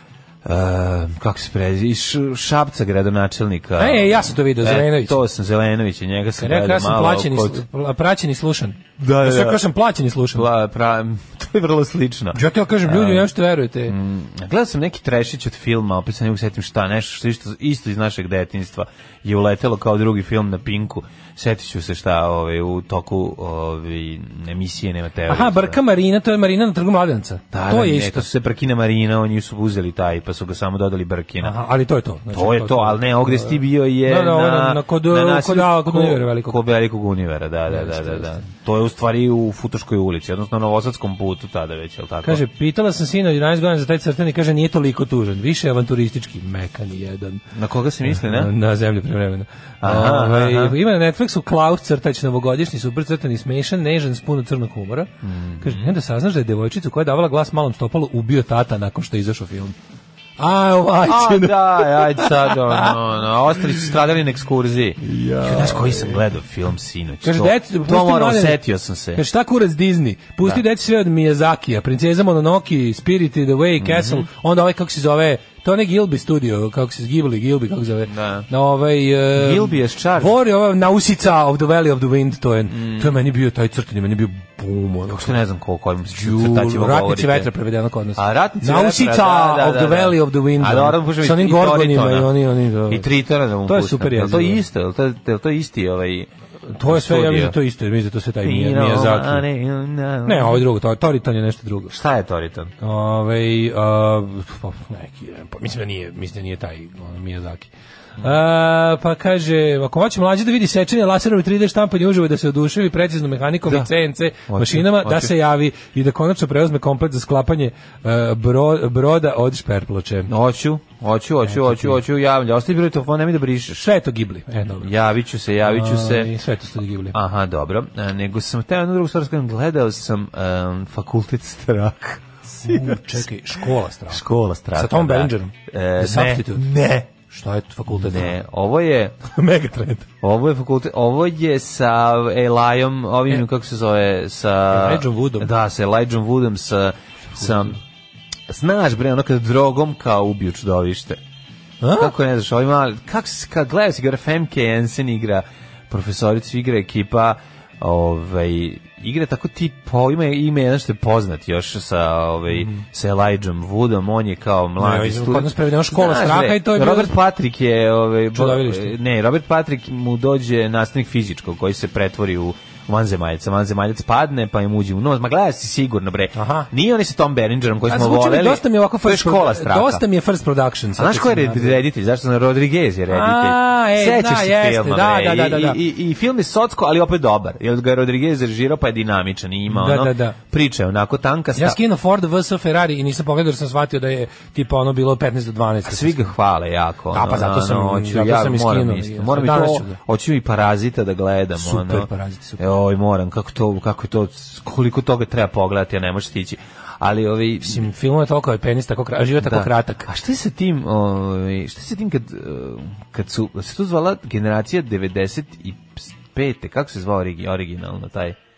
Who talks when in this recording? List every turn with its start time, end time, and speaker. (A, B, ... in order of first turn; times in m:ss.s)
0:00.4-0:07.6 A
0:03.8-0:05.2 B
0:06.4-0:10.5 B
0:09.0-0:09.6 A
0:10.3-0:13.3 A
0:12.3-0:14.0 B
0:13.9-0:25.8 A
0:25.3-0:28.3 B
0:27.5-0:31.6 A
0:31.4-0:36.6 B
0:32.3-0:42.4 A
0:37.7-0:38.4 B
0:42.2-0:47.4 B
0:47.6-0:48.5 A
0:48.1-0:59.7 B
0:49.8-0:50.8 A
0:55.2-0:55.9 A
1:00.4-1:03.0 B
1:01.0-1:09.2 A
1:05.0-1:06.2 B
1:07.2-1:08.6 B
1:09.2-1:25.4 B
1:13.8-1:14.3 A
1:18.1-1:18.5 A
1:19.3-1:20.4 A
1:22.7-1:23.2 A
1:25.1-1:27.5 A
1:26.1-1:33.1 B
1:28.2-1:36.3 A
1:33.7-1:34.6 B
1:36.7-1:39.4 B
1:36.8-1:37.6 A
1:38.4-1:40.6 A
1:40.2-1:41.9 B
1:41.9-1:42.7 A
1:42.8-2:00.3 B
1:54.5-1:55.3 A
2:00.3-2:03.9 A
2:01.5-2:02.0 B
2:03.8-2:04.9 B
2:04.8-2:06.3 A
2:05.6-2:07.2 B
2:07.1-2:13.3 A
2:12.6-2:14.2 B
2:14.1-2:17.1 A
2:14.7-2:16.6 B
2:17.2-2:18.4 B
2:17.9-2:19.2 A
2:19.2-2:20.1 B
2:20.2-2:27.8 A
2:24.7-2:25.5 B
2:27.4-2:27.8 B
2:28.5-2:31.2 A
2:31.8-2:32.1 B
2:32.0-3:00.0 A
2:42.5-2:42.8 B
2:44.8-2:47.1 B
2:48.3-2:48.9 B
2:56.4-2:56.7 B
2:57.9-3:01.8 B
3:01.0-3:11.8 A
3:03.1-3:05.8 B
3:09.7-3:10.4 B
3:11.6-3:16.3 B
3:15.8-3:27.9 A
3:17.1-3:20.0 B
3:21.6-3:22.6 B
3:27.6-3:30.1 B
3:29.4-3:38.4 A